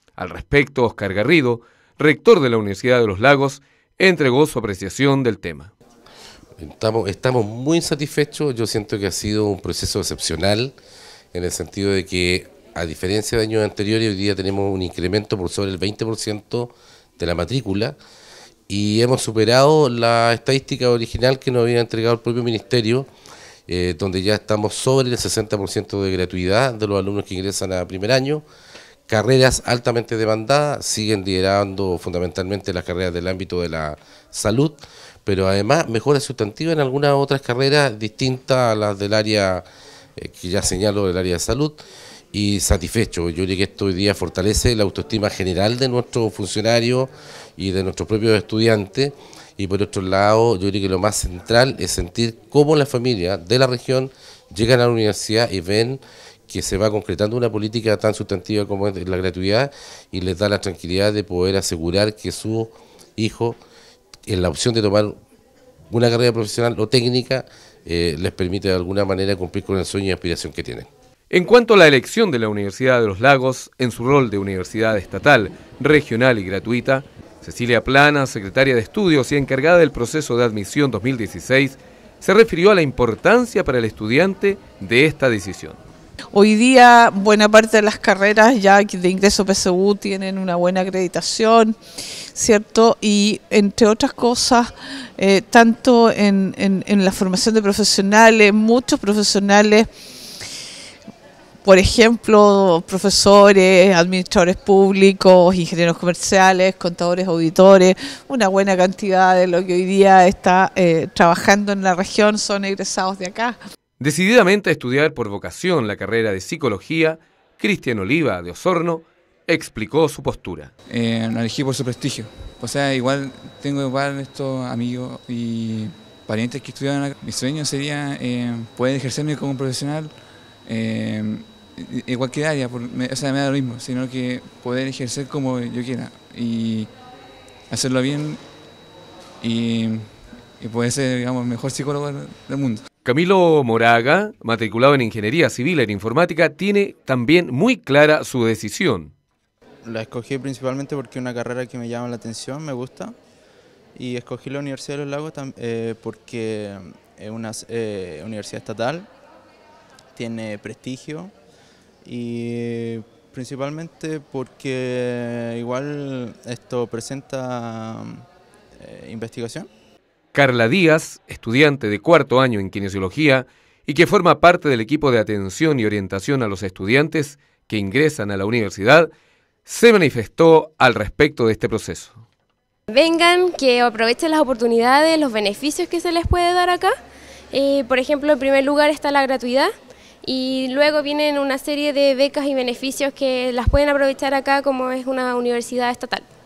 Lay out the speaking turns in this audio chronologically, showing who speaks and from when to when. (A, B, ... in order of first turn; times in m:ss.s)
0:00.2-0:05.7 A
0:06.6-0:10.7 B
0:11.3-0:18.0 B
0:18.7-0:23.1 B
0:23.7-0:28.4 B
0:29.1-0:39.6 B
0:40.2-0:41.8 B
0:42.3-1:03.6 B
1:04.3-1:05.2 B
1:05.9-1:10.9 B
1:11.3-1:25.8 A
1:26.3-1:31.8 C
1:32.3-1:39.8 C
1:41.6-1:53.6 C
1:54.0-2:00.7 A
2:00.9-2:10.1 D
2:10.6-2:16.9 D
2:17.7-2:18.4 D
2:19.4-2:22.8 D
2:23.0-2:29.1 A
2:29.8-2:33.2 E
2:33.9-2:39.1 E
2:40.1-2:41.3 E
2:42.0-2:48.2 E
2:48.8-2:49.7 E
2:50.3-2:59.1 A
2:59.6-3:02.2 A
3:02.9-3:06.9 F
3:07.5-3:09.7 F
3:10.2-3:16.2 F